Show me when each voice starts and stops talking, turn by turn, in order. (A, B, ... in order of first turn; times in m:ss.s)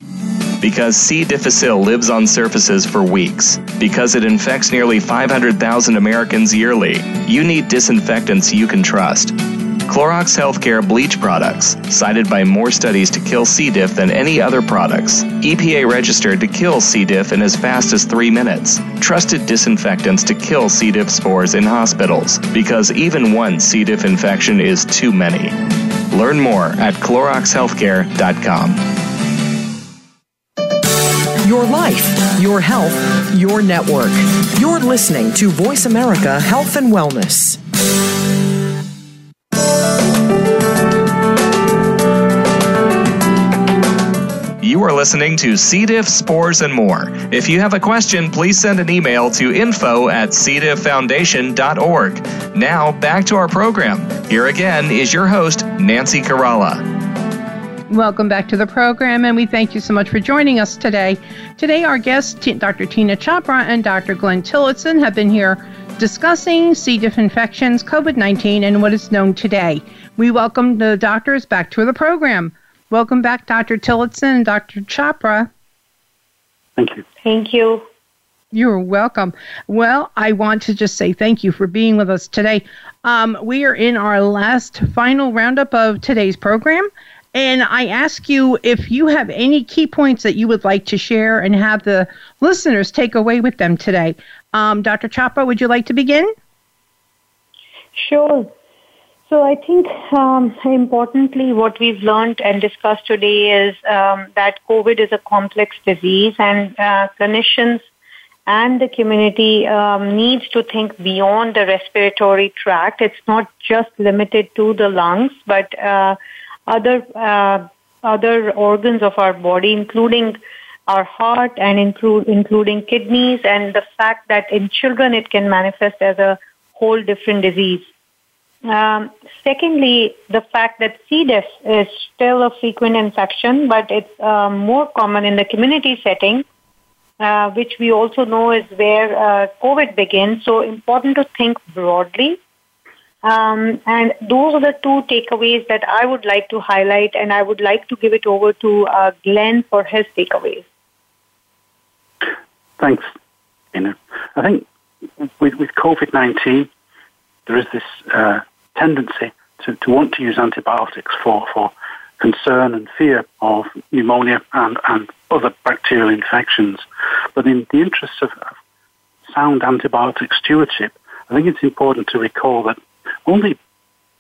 0:00.6-0:25.6 A
0:26.1-0:28.8 A
0:31.4-0:37.6 B
0:44.6-0:56.8 A
0:57.9-1:15.5 C
1:16.8-1:17.0 D
1:17.2-1:17.8 E
1:18.5-1:36.3 C
1:38.0-1:38.5 E
1:39.3-1:47.8 E
1:48.5-2:07.9 E
2:08.7-2:16.4 E
2:17.2-2:22.4 E
2:23.2-2:30.6 E
2:32.8-2:33.1 D
2:33.7-2:34.6 D
2:35.2-2:36.7 D
2:37.5-2:46.8 D
2:47.4-2:48.5 D
2:49.3-2:53.6 D